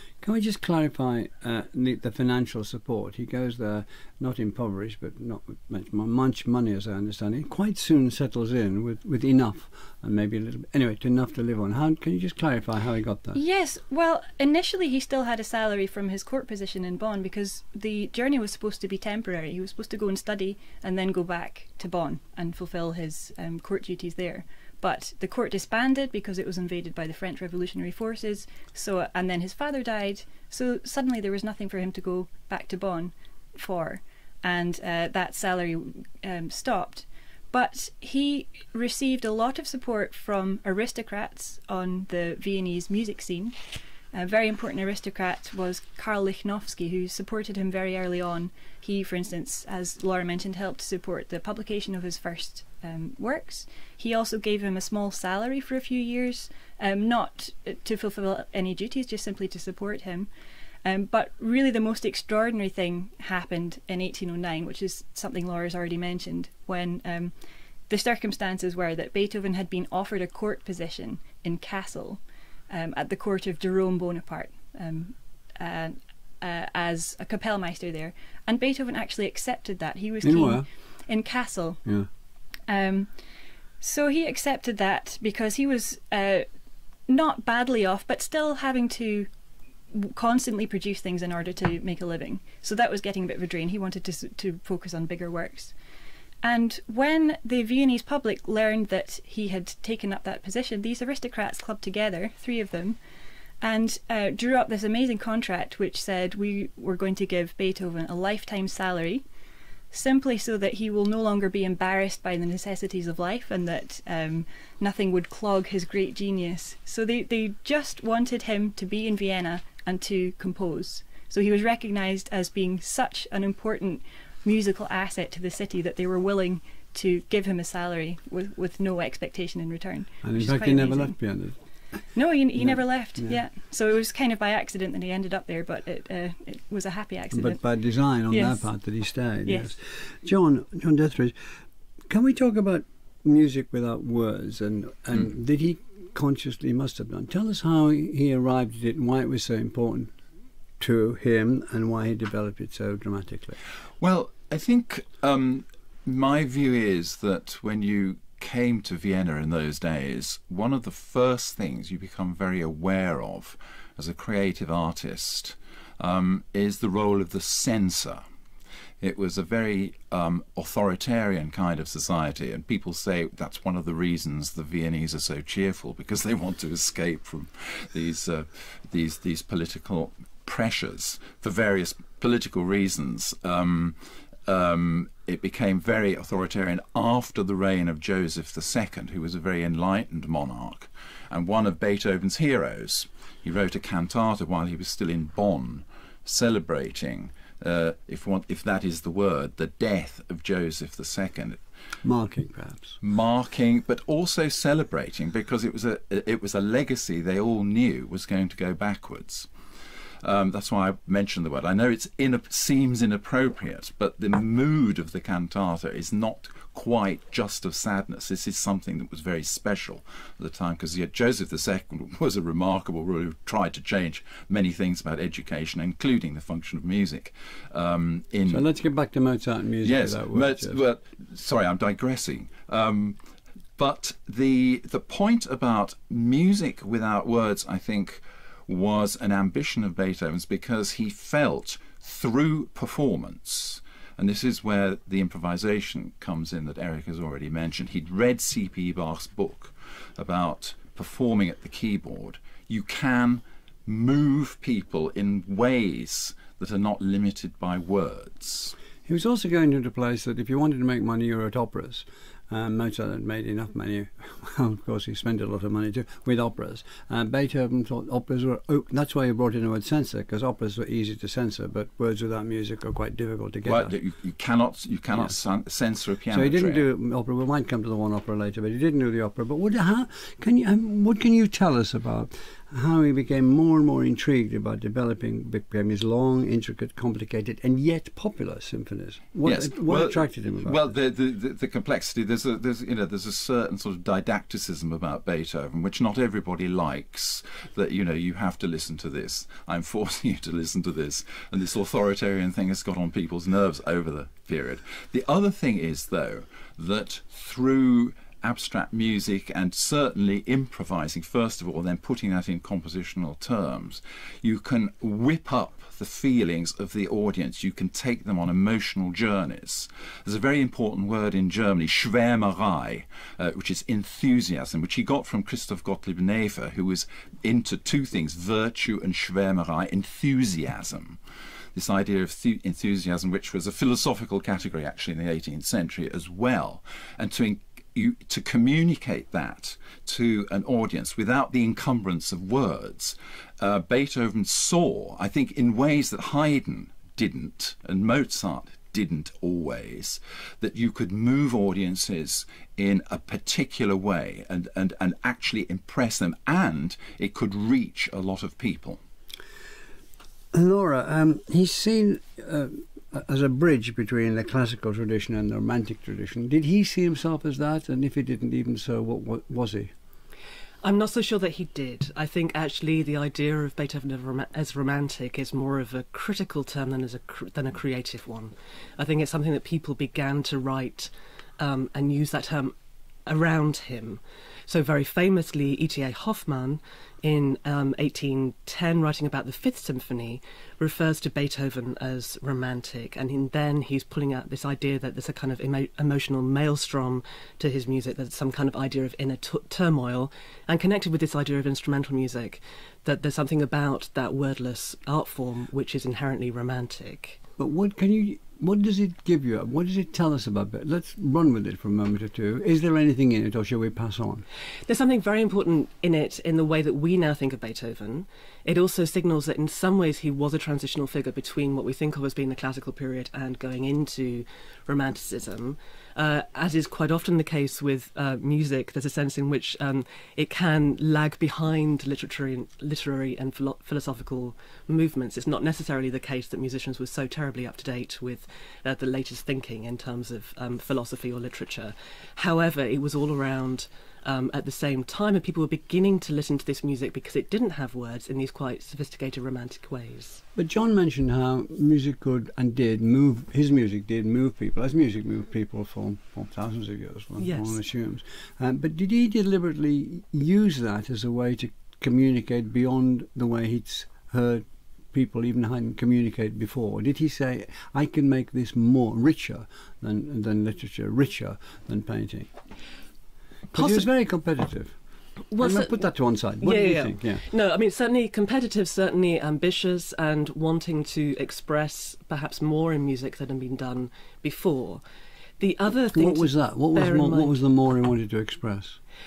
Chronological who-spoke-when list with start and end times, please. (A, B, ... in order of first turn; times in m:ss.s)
0:00.2-0:13.4 A
0:13.3-0:43.6 B
0:44.1-1:00.3 B
1:00.8-1:07.3 B
1:07.9-1:21.8 B
1:20.2-1:20.6 A
1:22.7-1:23.1 B
1:23.8-1:26.4 B
1:27.1-1:29.3 B
1:29.9-1:35.7 B
1:36.4-1:43.0 B
1:43.6-1:49.2 B
1:49.9-2:11.1 B
2:10.2-2:11.5 A
2:12.1-2:17.6 B
2:12.6-2:13.4 A
2:17.3-2:21.3 A
2:18.3-2:18.7 B
2:19.4-2:19.7 B
2:22.1-2:30.1 A
2:30.8-2:33.6 A
2:34.0-2:48.2 C
2:49.0-3:21.6 C
3:22.0-3:23.0 A
3:23.0-3:29.5 C
3:30.2-3:48.6 C
3:48.5-3:50.8 A
3:49.8-3:53.2 C
3:53.8-4:18.7 C
4:19.1-4:33.9 A
4:33.6-4:36.8 C
4:36.3-4:50.8 A
4:49.4-5:31.2 C
5:31.7-5:59.0 C
6:00.5-6:09.9 A
6:10.8-6:22.7 D
6:23.2-6:47.4 D
6:47.6-6:54.4 A
6:54.9-7:30.4 D
7:30.6-7:52.5 A
7:37.4-7:37.8 D
7:53.7-7:55.0 A
7:53.7-7:54.0 D
7:55.5-8:05.0 D
7:55.6-7:57.4 A
8:05.6-8:07.5 D
8:06.1-8:09.0 A